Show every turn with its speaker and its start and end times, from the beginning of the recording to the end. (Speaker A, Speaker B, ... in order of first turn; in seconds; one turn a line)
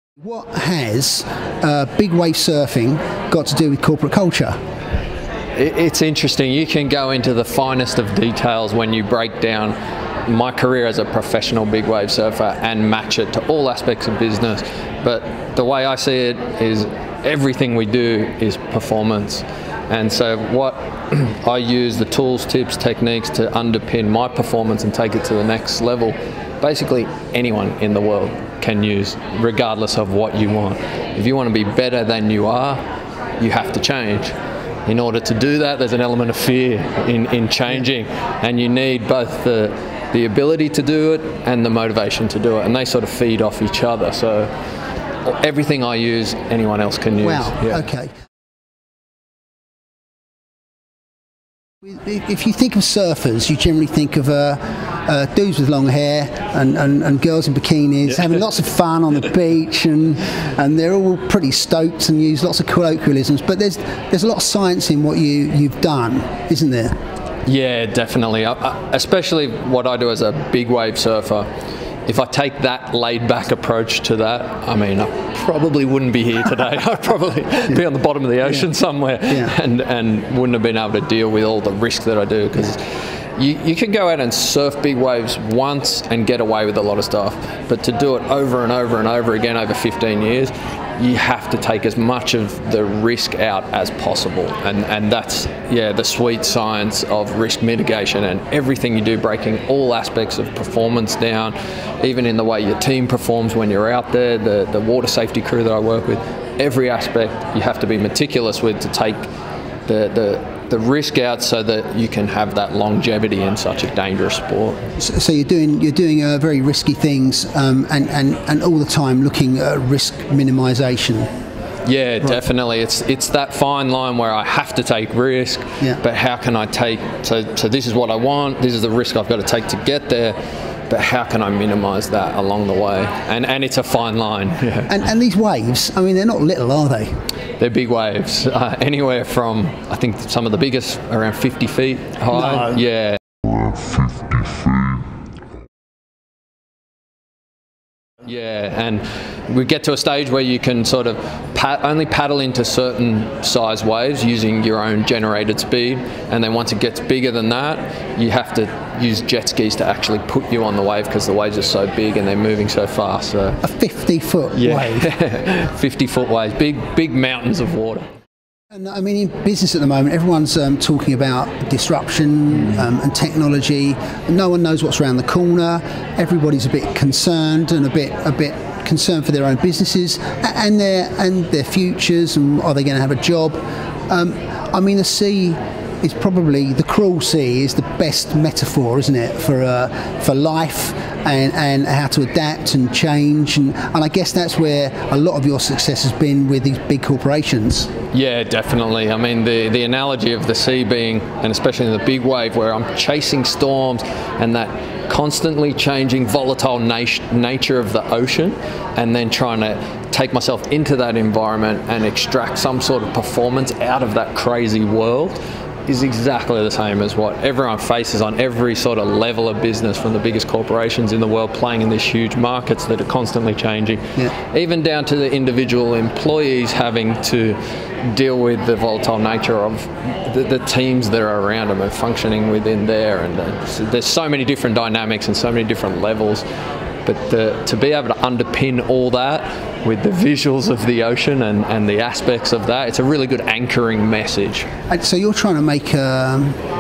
Speaker A: 0.2-4.6
Speaker B: 5.6-9.8
Speaker B: 10.3-32.8
Speaker B: 33.4-34.4
Speaker B: 34.9-44.5
Speaker B: 45.2-47.9
Speaker A: 47.2-48.1
Speaker A: 51.8-67.0
Speaker B: 67.5-71.5
Speaker B: 72.1-109.3
Speaker B: 109.9-114.8
Speaker A: 115.0-121.3
Speaker B: 121.8-130.4
Speaker B: 130.9-134.9
Speaker A: 134.9-137.2
Speaker B: 137.6-143.7
Speaker A: 142.3-142.8
Speaker B: 148.2-163.6
Speaker A: 163.6-165.1
Speaker B: 164.6-168.1
Speaker A: 168.7-197.9
Speaker B: 198.1-227.6
Speaker B: 228.1-236.4
Speaker B: 237.1-244.7
Speaker A: 244.9-246.6